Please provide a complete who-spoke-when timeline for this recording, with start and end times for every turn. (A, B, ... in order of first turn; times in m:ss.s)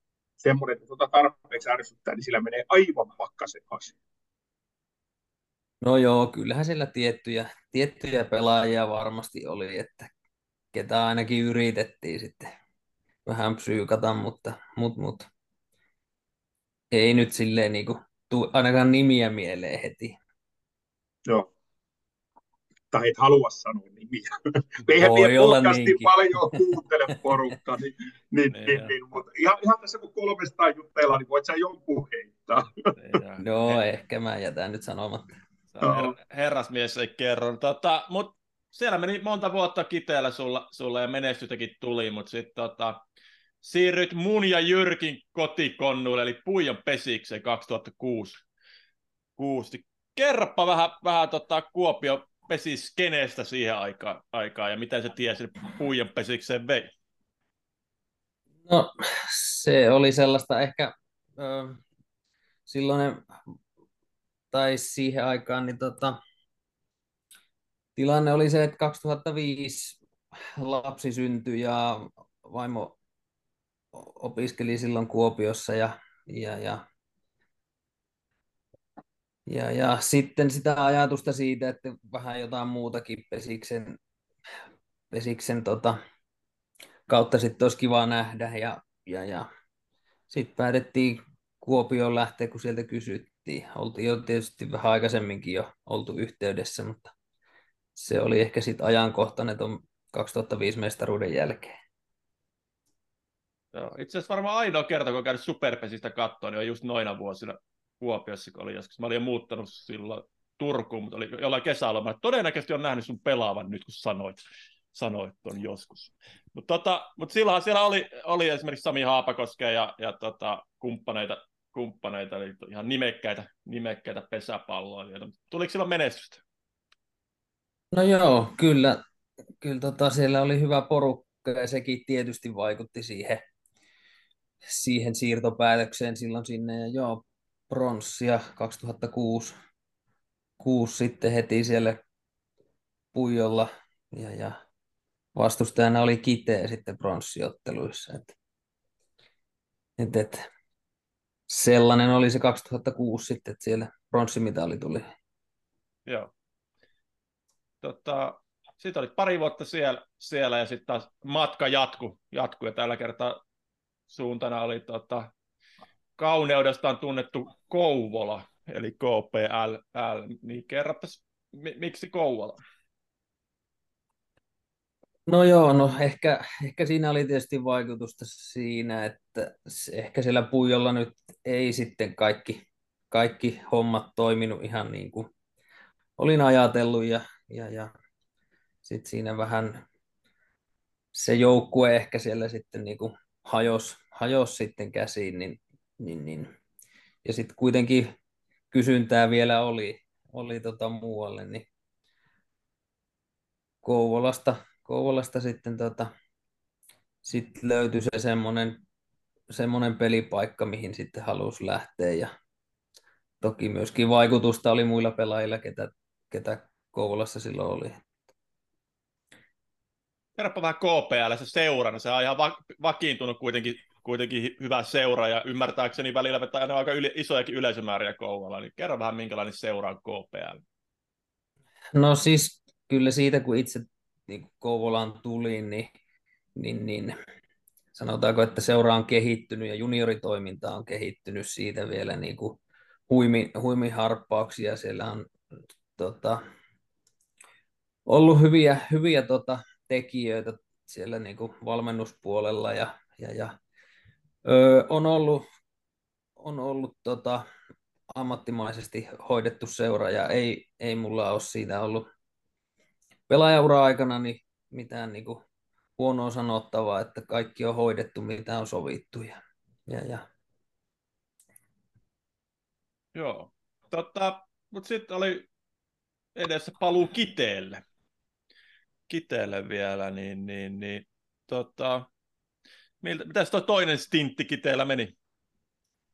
0:00.4-0:04.0 A
0:05.8-0:10.1 B
0:10.7-0:12.5 B
0:13.2-0:15.3 B
0:16.9-0:20.2 B
0:22.9-0:33.0 A
0:25.0-0:26.6 B
0:28.5-0:28.9 C
0:33.0-0:33.8 C
0:33.4-0:35.3 B
0:35.7-0:43.0 C
0:35.8-0:36.1 A
0:43.6-0:48.4 C
0:49.4-0:56.9 C
0:58.7-1:01.8 B
1:02.7-1:03.3 B
1:04.5-1:06.2 B
1:08.0-1:10.0 B
1:10.6-1:13.0 B
1:13.9-1:16.8 B
1:19.5-1:24.0 B
1:25.1-1:26.0 B
1:27.1-1:29.5 B
1:30.3-1:37.1 B
1:38.0-1:41.8 B
1:43.7-1:54.4 C
1:54.9-2:06.4 C
2:07.9-2:09.0 B
2:09.6-2:13.4 B
2:14.6-2:19.5 B
2:20.6-2:22.0 B
2:23.1-2:24.6 B
2:25.4-2:28.4 B
2:30.0-2:30.5 B
2:31.5-2:35.0 B
2:37.8-2:43.4 C
2:44.1-2:45.3 C
2:46.2-2:52.6 C
2:55.3-3:05.3 B
3:06.2-3:07.9 B
3:08.8-3:09.8 B
3:11.1-3:16.5 B
3:17.2-3:18.1 B
3:18.7-3:21.7 B
3:23.8-3:26.1 B
3:27.2-3:28.8 B
3:29.5-3:32.3 B
3:33.4-3:38.0 B
3:40.4-3:50.6 C
3:52.0-3:55.9 B
3:56.6-3:57.1 B
3:57.9-4:05.3 B
4:06.0-4:06.4 B
4:08.1-4:13.5 B
4:14.4-4:15.4 B
4:16.4-4:17.4 B
4:18.1-4:22.0 B
4:23.3-4:25.4 B
4:26.0-4:30.2 B
4:33.1-4:35.5 C
4:36.4-4:37.8 C
4:39.1-4:42.1 C
4:43.0-4:45.1 C